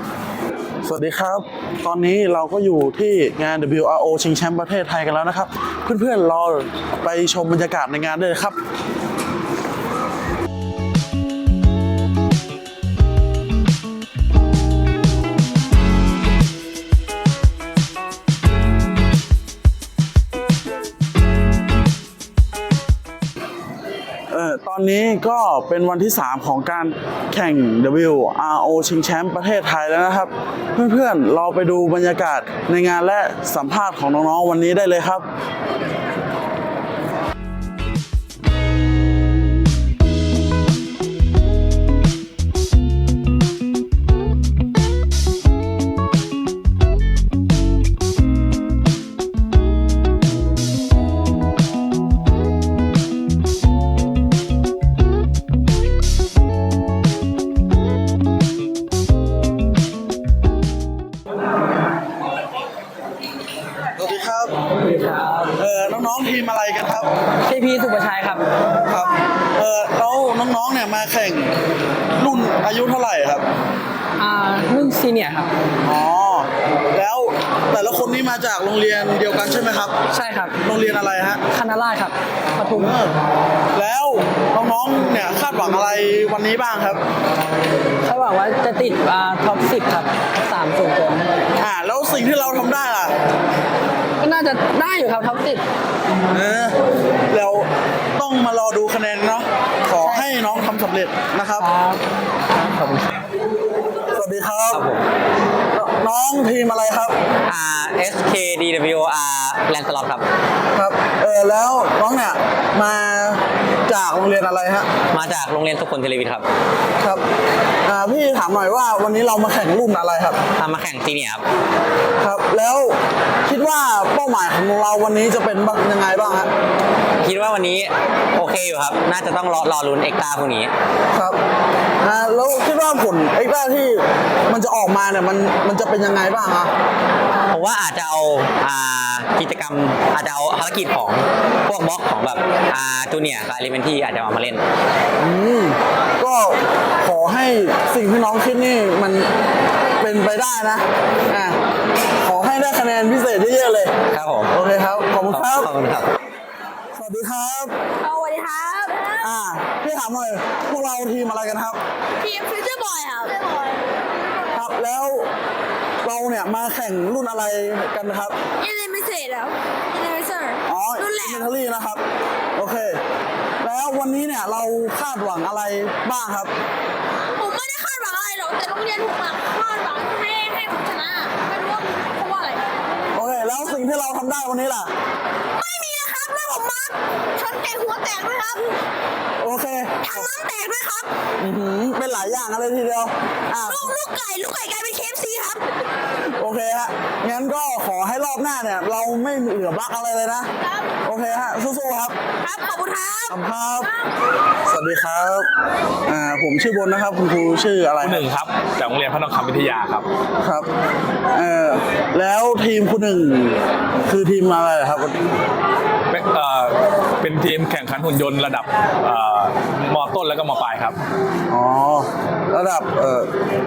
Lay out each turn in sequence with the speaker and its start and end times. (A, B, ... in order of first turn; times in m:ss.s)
0:00.8-0:08.6 A
0:24.3-0:35.2 A
1:04.0-1:04.6 A
1:04.9-1:05.5 B
1:05.6-1:07.1 A
1:07.5-1:08.4 B
1:08.8-1:11.6 A
1:12.1-1:13.4 A
1:14.2-1:15.5 B
1:15.8-1:20.0 A
1:20.1-1:20.6 B
1:20.6-1:21.4 A
1:21.5-1:22.9 B
1:22.7-1:23.2 A
1:23.8-1:27.0 A
1:28.0-1:31.4 B
1:31.6-1:33.1 A
1:34.2-1:35.6 B
1:36.3-1:36.8 A
1:37.3-1:41.7 A
1:41.6-1:43.1 B
1:44.1-1:44.8 A
1:44.7-1:45.0 C
1:45.7-1:47.2 A
1:47.5-1:50.2 C
1:50.7-1:54.9 A
1:55.1-1:56.5 C
1:57.8-2:00.4 A
2:00.6-2:01.4 C
2:02.2-2:06.5 A
2:07.2-2:10.7 C
2:11.1-2:11.4 A
2:12.0-2:16.7 A
2:17.5-2:24.6 C
2:25.2-2:29.3 A
2:30.0-2:31.6 A
2:32.2-2:33.9 A
2:34.1-2:34.5 C
2:34.5-2:35.7 A
2:35.3-2:36.1 C
2:36.9-2:37.8 A
2:38.0-2:39.1 D
2:39.2-2:41.8 A
2:42.2-2:43.8 D
2:44.6-2:45.3 A
2:46.0-2:48.4 A
2:48.6-2:51.5 D
2:50.7-2:52.0 A
2:52.6-2:53.0 A
2:53.6-2:56.5 A
2:57.3-3:02.7 D
3:03.1-3:04.9 A
3:05.6-3:08.7 D
3:09.4-3:10.3 A
3:10.1-3:11.1 D
3:11.4-3:13.9 A
3:13.7-3:15.6 D
3:16.3-3:20.5 A
3:21.0-3:22.2 A
3:22.4-3:23.3 D
3:23.3-3:23.9 A
3:24.7-3:25.5 A
3:26.1-3:28.2 A
3:28.0-3:30.1 E
3:30.4-3:30.7 A
3:31.3-3:35.2 A
3:36.1-3:41.0 E
3:41.5-3:43.3 A